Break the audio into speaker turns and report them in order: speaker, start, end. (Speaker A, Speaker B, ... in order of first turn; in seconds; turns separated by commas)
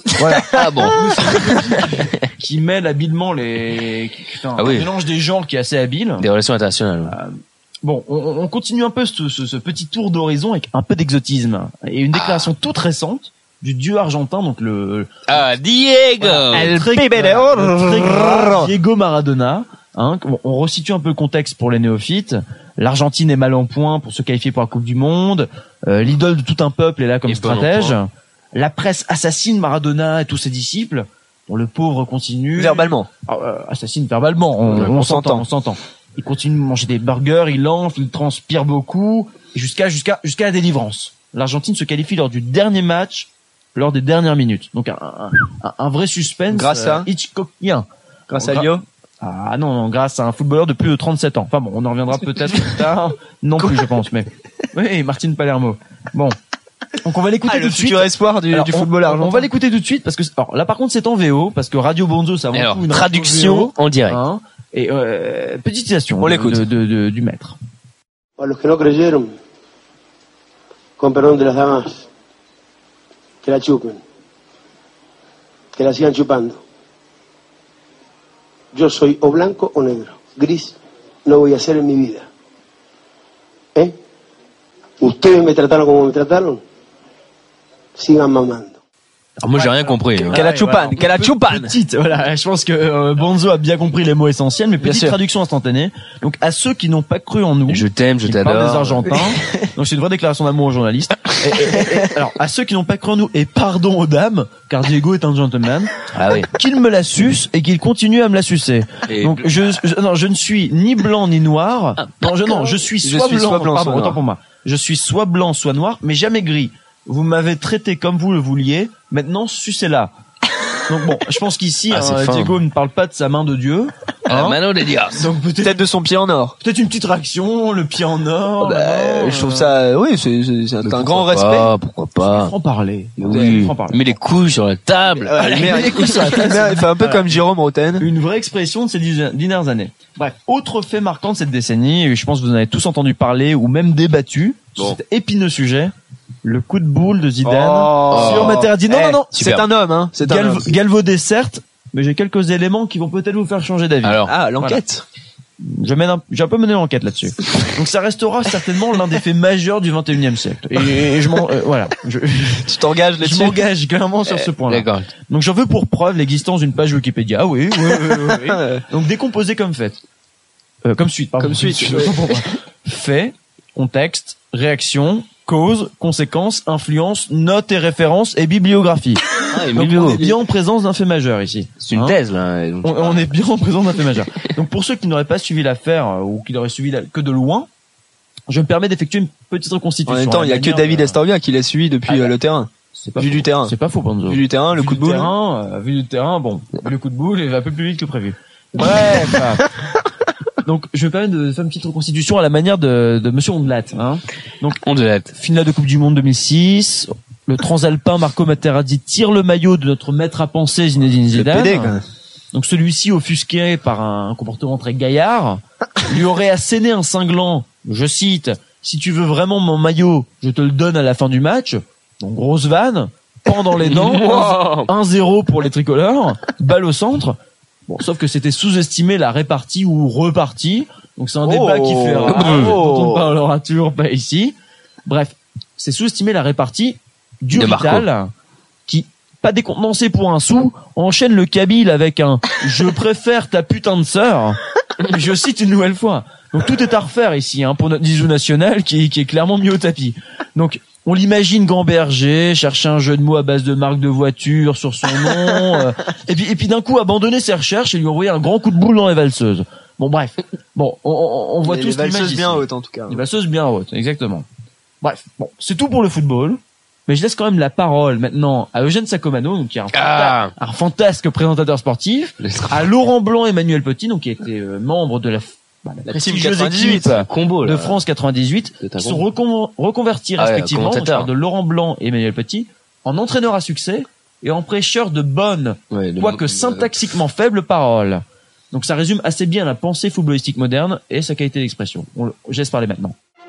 Speaker A: 0.2-6.2, Speaker B: 0.5-1.0, Speaker B: 4.6-4.9, Speaker B: 6.2-7.1, Speaker A: 7.0-15.1, Speaker B: 12.1-12.5, Speaker B: 15.3-16.8, Speaker A: 16.2-56.4, Speaker C: 16.7-18.7, Speaker B: 27.3-28.0, Speaker C: 32.5-33.1, Speaker C: 34.7-35.5, Speaker C: 46.5-47.1, Speaker C: 48.3-48.8, Speaker A: 57.0-67.5, Speaker C: 57.5-59.5, Speaker B: 62.5-64.2, Speaker C: 66.2-66.7, Speaker D: 68.4-69.4, Speaker D: 71.0-72.0, Speaker D: 73.4-74.0, Speaker D: 75.7-76.6, Speaker D: 78.7-82.2, Speaker D: 85.0-86.6, Speaker D: 87.9-88.8, Speaker B: 89.4-90.4, Speaker C: 90.2-91.7, Speaker A: 90.3-120.1, Speaker C: 94.8-95.2, Speaker B: 97.7-99.1, Speaker B: 106.1-106.5, Speaker B: 109.1-109.8, Speaker C: 113.0-114.2, Speaker A: 120.9-124.6, Speaker B: 121.9-122.5, Speaker B: 124.3-125.2, Speaker A: 125.1-125.8, Speaker C: 125.6-126.5, Speaker A: 126.6-129.7, Speaker C: 128.6-131.7, Speaker B: 130.8-132.5, Speaker A: 132.2-134.1, Speaker B: 133.2-136.5, Speaker C: 133.2-133.6, Speaker C: 135.2-138.1, Speaker A: 135.4-137.3, Speaker A: 138.0-145.9, Speaker A: 146.4-149.5, Speaker C: 147.4-150.8, Speaker B: 148.1-148.6, Speaker B: 149.3-149.6, Speaker A: 150.2-154.8, Speaker B: 154.0-154.3, Speaker C: 154.3-155.0, Speaker A: 155.6-162.7, Speaker C: 162.6-163.6, Speaker A: 163.2-170.0, Speaker B: 164.7-165.1, Speaker C: 168.1-168.8, Speaker A: 170.8-182.2, Speaker C: 171.4-172.4, Speaker B: 179.5-180.3, Speaker B: 181.8-183.3, Speaker A: 182.8-187.7, Speaker A: 188.5-191.2, Speaker C: 190.1-193.7, Speaker A: 192.1-192.3, Speaker A: 193.0-199.6, Speaker C: 194.3-195.3, Speaker C: 198.8-199.4, Speaker A: 200.6-204.8, Speaker B: 204.8-205.3, Speaker A: 205.3-211.9, Speaker C: 211.3-212.0, Speaker A: 212.5-234.5, Speaker B: 223.8-224.9, Speaker C: 231.4-233.3, Speaker B: 232.2-232.8, Speaker A: 235.1-238.3, Speaker B: 237.5-238.1, Speaker A: 238.9-264.4, Speaker C: 261.6-263.2, Speaker A: 265.0-293.1, Speaker B: 269.9-270.5, Speaker B: 272.4-272.9, Speaker C: 276.1-277.2, Speaker B: 277.1-278.0, Speaker B: 278.8-279.2, Speaker B: 280.4-281.3, Speaker B: 285.9-287.1